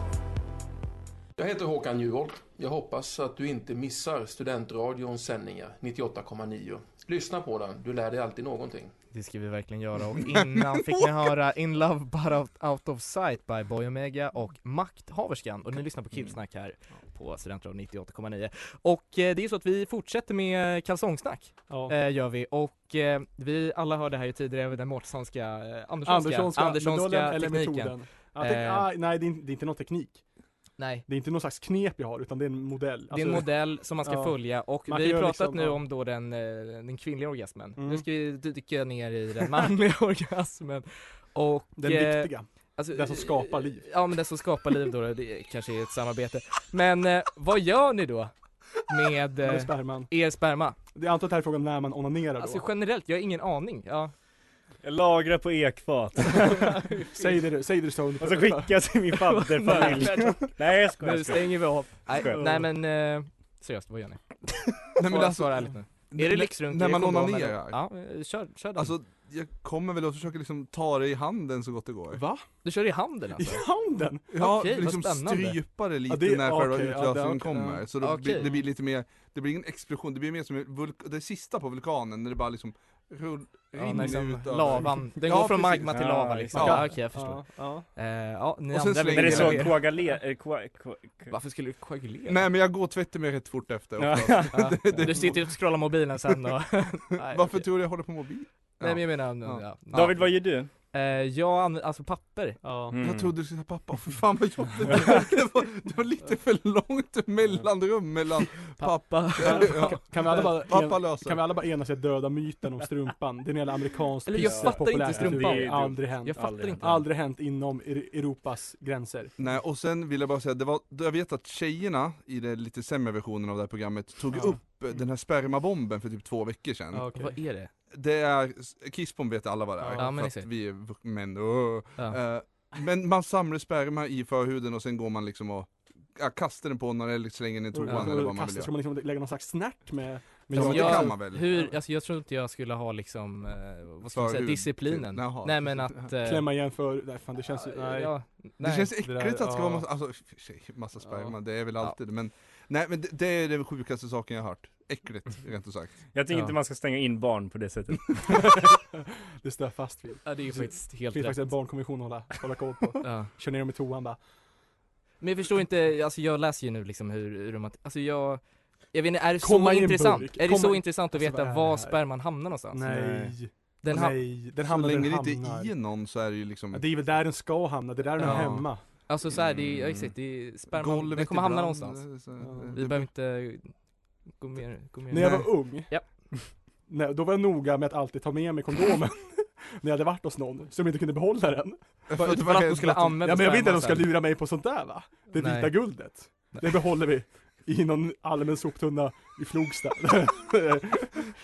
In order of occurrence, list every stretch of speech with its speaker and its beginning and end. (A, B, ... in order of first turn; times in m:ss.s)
0:01.4-0:08.9 A
0:09.1-0:28.9 B
0:10.2-0:11.3 C
0:21.7-0:22.0 D
0:26.0-0:30.2 D
0:30.8-0:31.0 B
0:31.1-0:35.8 D
0:33.1-0:48.3 B
0:37.8-0:38.0 D
0:41.8-0:43.9 D
0:48.8-0:50.8 B
0:49.4-0:50.1 D
0:50.9-0:52.6 D
0:52.4-0:54.1 B
0:54.8-0:56.9 E
0:56.7-0:57.2 B
0:57.1-0:59.0 D
0:58.2-1:02.6 E
0:59.3-1:08.9 B
0:59.7-1:00.4 D
1:05.0-1:07.8 C
1:08.8-1:12.2 C
1:12.1-1:12.4 D
1:12.6-1:13.6 B
1:13.4-1:14.3 D
1:14.3-1:26.8 C
1:14.3-1:15.6 B
1:16.1-1:18.5 D
1:18.0-1:18.5 B
1:23.8-1:29.9 B
1:25.9-1:26.9 E
1:26.5-1:27.9 D
1:28.7-1:29.8 C
1:29.1-1:31.3 E
1:31.3-1:32.4 B
1:32.3-1:35.5 C
1:34.0-1:35.1 E
1:34.5-1:37.7 B
1:37.2-1:39.6 C
1:38.8-1:42.6 B
1:39.9-1:40.7 E
1:42.6-1:43.0 D
1:42.9-1:43.3 E
1:43.0-1:51.4 C
1:48.8-1:50.3 B
1:49.4-1:59.3 D
1:54.2-1:57.0 B
1:54.4-1:57.0 E
1:59.4-2:07.1 C
2:04.3-2:04.6 D
2:06.9-2:07.3 D
2:07.1-2:07.7 B
2:07.9-2:18.7 C
2:09.8-2:10.1 D
2:09.9-2:10.5 B
2:17.7-2:21.7 D
2:17.8-2:18.1 B
2:20.5-2:21.5 C
2:20.5-2:26.5 B
2:24.1-2:26.1 C
2:26.2-2:28.2 D
2:27.5-2:28.9 B
2:28.6-2:36.0 C
2:29.0-2:29.9 D
2:31.0-2:31.4 D
2:36.1-2:38.4 E
2:38.3-2:38.8 D
2:39.4-2:44.2 D
2:40.2-2:41.6 B
2:43.0-2:43.3 B
2:45.2-2:52.8 B
2:49.4-2:55.7 D
2:52.8-2:53.4 E
2:53.8-2:54.2 B
2:53.9-2:56.8 C
2:56.7-2:58.9 D
2:58.2-3:02.1 B
2:59.4-3:00.1 E
3:00.7-3:03.1 C
3:02.4-3:02.8 D
3:02.7-3:06.4 B
3:05.1-3:12.1 D
3:12.1-3:13.1 C
3:12.1-3:14.1 B
3:13.2-3:21.2 D
3:15.3-3:16.7 B